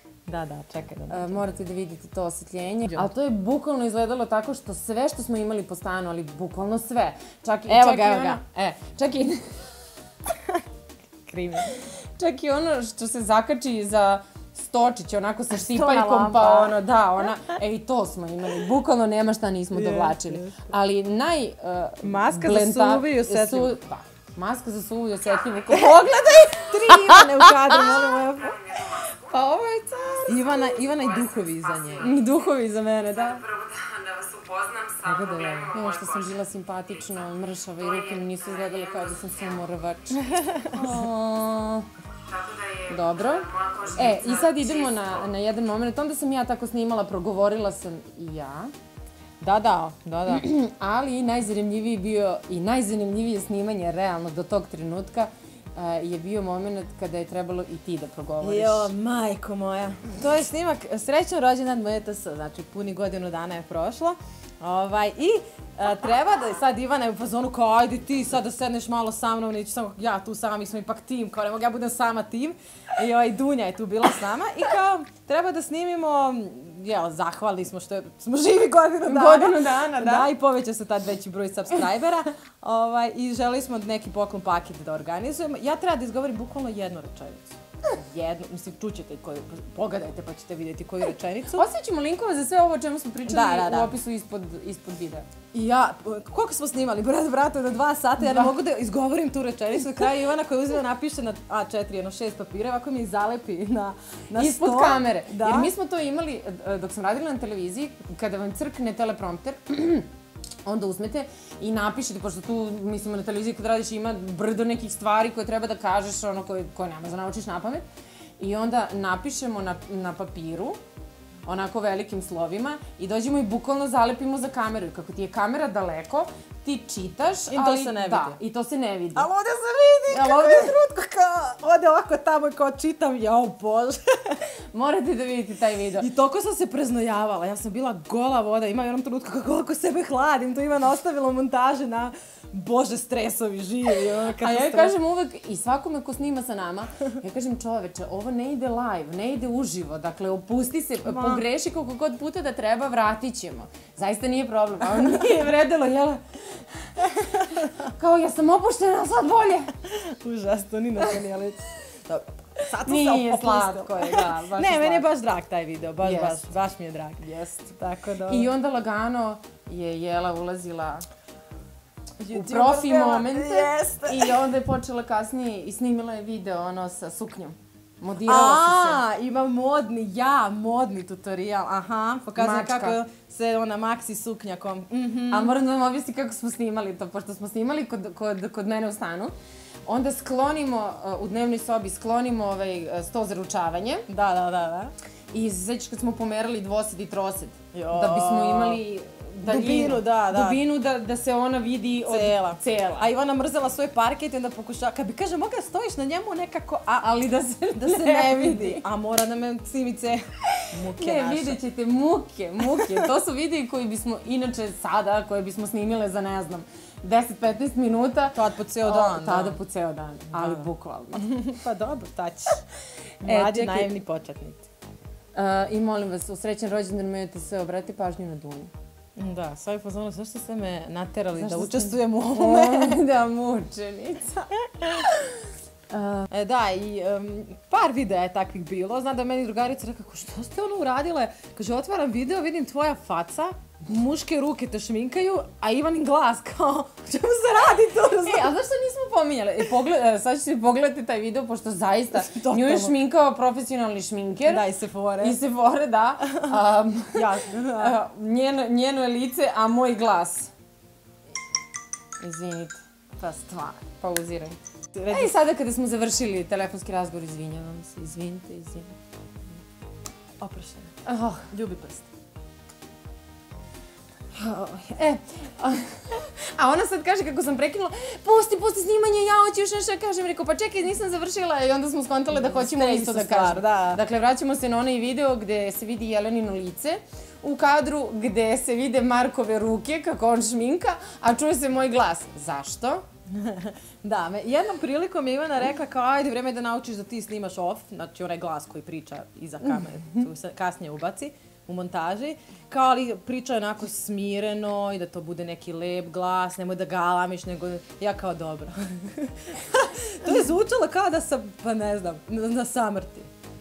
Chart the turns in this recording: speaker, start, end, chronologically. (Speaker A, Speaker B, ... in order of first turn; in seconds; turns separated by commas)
Speaker A: 0.3-1.4, Speaker B: 1.1-9.6, Speaker A: 2.9-3.1, Speaker A: 7.7-8.4, Speaker A: 11.3-11.7, Speaker B: 11.7-28.0, Speaker A: 15.5-16.8, Speaker A: 19.7-20.6, Speaker A: 22.0-23.8, Speaker A: 25.7-28.7, Speaker C: 28.4-29.2, Speaker B: 29.0-30.6, Speaker A: 30.3-32.1, Speaker C: 30.5-32.1, Speaker B: 32.0-33.5, Speaker C: 33.4-36.2, Speaker A: 35.0-35.8, Speaker B: 35.7-41.8, Speaker C: 38.2-39.3, Speaker A: 40.3-40.7, Speaker C: 42.3-45.0, Speaker B: 42.9-48.7, Speaker A: 43.9-44.4, Speaker A: 49.4-50.4, Speaker B: 50.3-58.9, Speaker A: 58.4-91.7, Speaker B: 79.0-80.3, Speaker B: 91.5-95.3, Speaker A: 93.2-94.0, Speaker A: 95.5-105.7, Speaker B: 98.2-98.5, Speaker B: 104.3-110.1, Speaker B: 110.7-117.8, Speaker B: 118.4-120.8, Speaker B: 121.4-129.3, Speaker A: 127.5-128.4, Speaker A: 129.1-134.4, Speaker B: 130.1-130.7, Speaker B: 134.7-136.1, Speaker A: 136.0-145.0, Speaker B: 144.4-159.7, Speaker A: 151.0-151.4, Speaker A: 157.1-157.5, Speaker A: 159.8-168.5, Speaker B: 162.8-165.1, Speaker B: 166.0-166.4, Speaker B: 168.2-171.0, Speaker A: 172.2-174.4, Speaker B: 172.3-179.0, Speaker A: 178.2-185.6, Speaker B: 182.3-183.0, Speaker B: 185.3-189.3, Speaker B: 189.8-194.0, Speaker A: 194.1-194.9, Speaker B: 195.3-203.1, Speaker A: 197.7-198.8, Speaker A: 199.4-200.6, Speaker A: 202.1-207.1, Speaker B: 207.0-208.8, Speaker A: 207.8-211.6, Speaker B: 210.6-221.3, Speaker A: 212.6-213.1, Speaker A: 218.3-219.6, Speaker A: 220.3-222.6, Speaker A: 223.2-224.7, Speaker B: 223.2-223.9, Speaker B: 225.3-228.7, Speaker A: 229.2-233.0, Speaker B: 231.4-235.2, Speaker B: 235.9-236.3, Speaker A: 236.3-248.5, Speaker B: 248.2-254.7, Speaker A: 252.1-252.9, Speaker A: 254.4-255.4, Speaker B: 255.2-257.2, Speaker A: 257.1-257.9, Speaker B: 257.8-260.5, Speaker B: 262.2-264.6, Speaker A: 264.9-265.3, Speaker B: 265.1-269.0, Speaker A: 270.4-270.9, Speaker B: 271.0-271.5, Speaker A: 271.5-272.1, Speaker B: 274.3-293.0, Speaker A: 282.3-284.0, Speaker A: 293.3-313.3